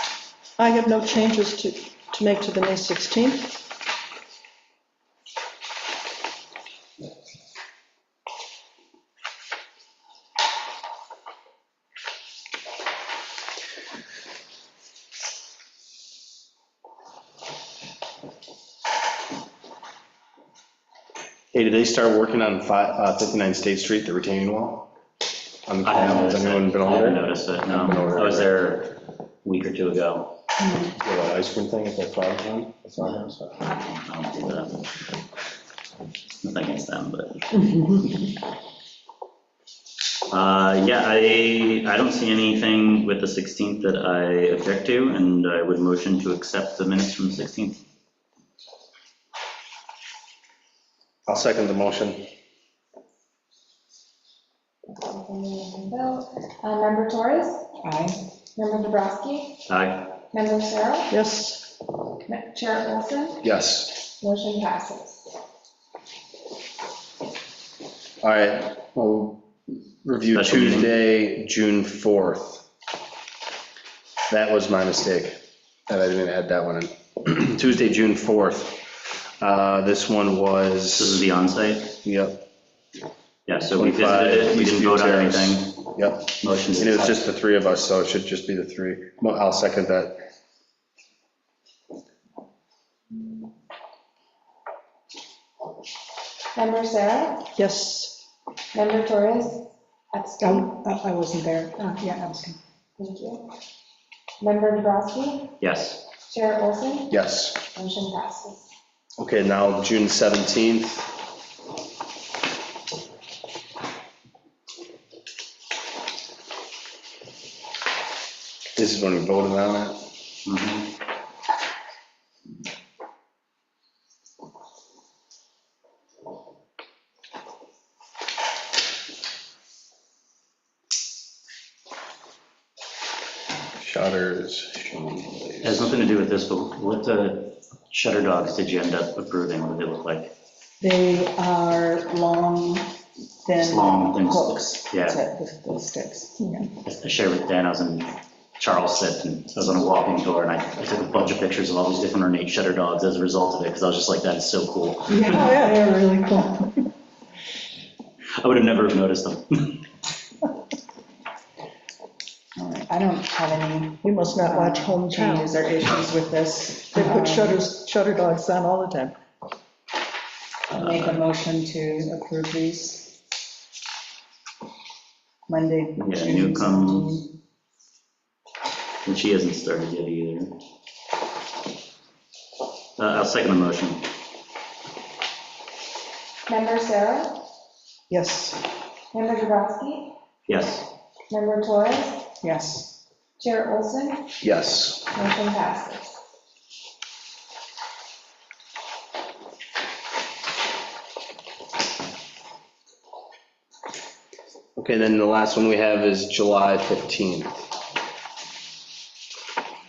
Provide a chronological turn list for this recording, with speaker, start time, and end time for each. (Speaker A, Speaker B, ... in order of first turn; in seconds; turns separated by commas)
Speaker A: 0.6-3.6, Speaker B: 21.5-24.9, Speaker B: 25.7-28.5, Speaker C: 25.8-30.3, Speaker D: 30.6-30.9, Speaker B: 30.9-33.6, Speaker C: 33.7-34.8, Speaker C: 36.4-37.9, Speaker C: 40.3-47.8, Speaker B: 51.2-52.3, Speaker E: 54.9-57.7, Speaker D: 57.8-58.2, Speaker E: 58.5-59.7, Speaker C: 59.7-60.1, Speaker E: 60.3-61.1, Speaker A: 61.1-61.7, Speaker E: 62.2-63.5, Speaker B: 63.4-63.9, Speaker E: 64.2-65.3, Speaker B: 68.2-69.4, Speaker B: 70.0-72.6, Speaker C: 70.3-70.9, Speaker B: 74.3-81.2, Speaker C: 81.0-81.9, Speaker B: 82.0-82.4, Speaker C: 83.5-87.2, Speaker B: 83.7-90.2, Speaker E: 96.5-97.5, Speaker A: 97.5-98.2, Speaker E: 98.7-100.7, Speaker D: 100.4-102.6, Speaker E: 103.0-103.5, Speaker E: 104.4-105.6, Speaker C: 105.6-106.0, Speaker E: 106.2-107.2, Speaker B: 107.1-107.6, Speaker E: 107.7-108.7, Speaker B: 109.2-111.1, Speaker B: 118.8-120.0, Speaker C: 120.5-120.9, Speaker B: 133.8-135.9, Speaker C: 135.6-140.3, Speaker D: 140.8-142.9, Speaker D: 143.4-146.7, Speaker C: 143.6-145.2, Speaker C: 146.8-155.5, Speaker D: 155.1-156.7, Speaker A: 155.3-156.5, Speaker C: 158.4-159.8, Speaker D: 162.6-167.7, Speaker A: 164.0-165.6, Speaker A: 166.9-169.2, Speaker C: 170.7-171.2, Speaker D: 170.7-173.1, Speaker D: 175.5-177.3, Speaker C: 176.0-177.2, Speaker C: 179.0-180.5, Speaker C: 183.0-184.1, Speaker E: 186.5-187.4, Speaker D: 188.1-188.6, Speaker E: 189.1-190.1, Speaker C: 190.5-190.9, Speaker E: 191.3-192.3, Speaker D: 192.4-192.9, Speaker E: 193.4-194.3, Speaker B: 194.4-195.1, Speaker E: 195.1-196.2, Speaker B: 204.8-207.6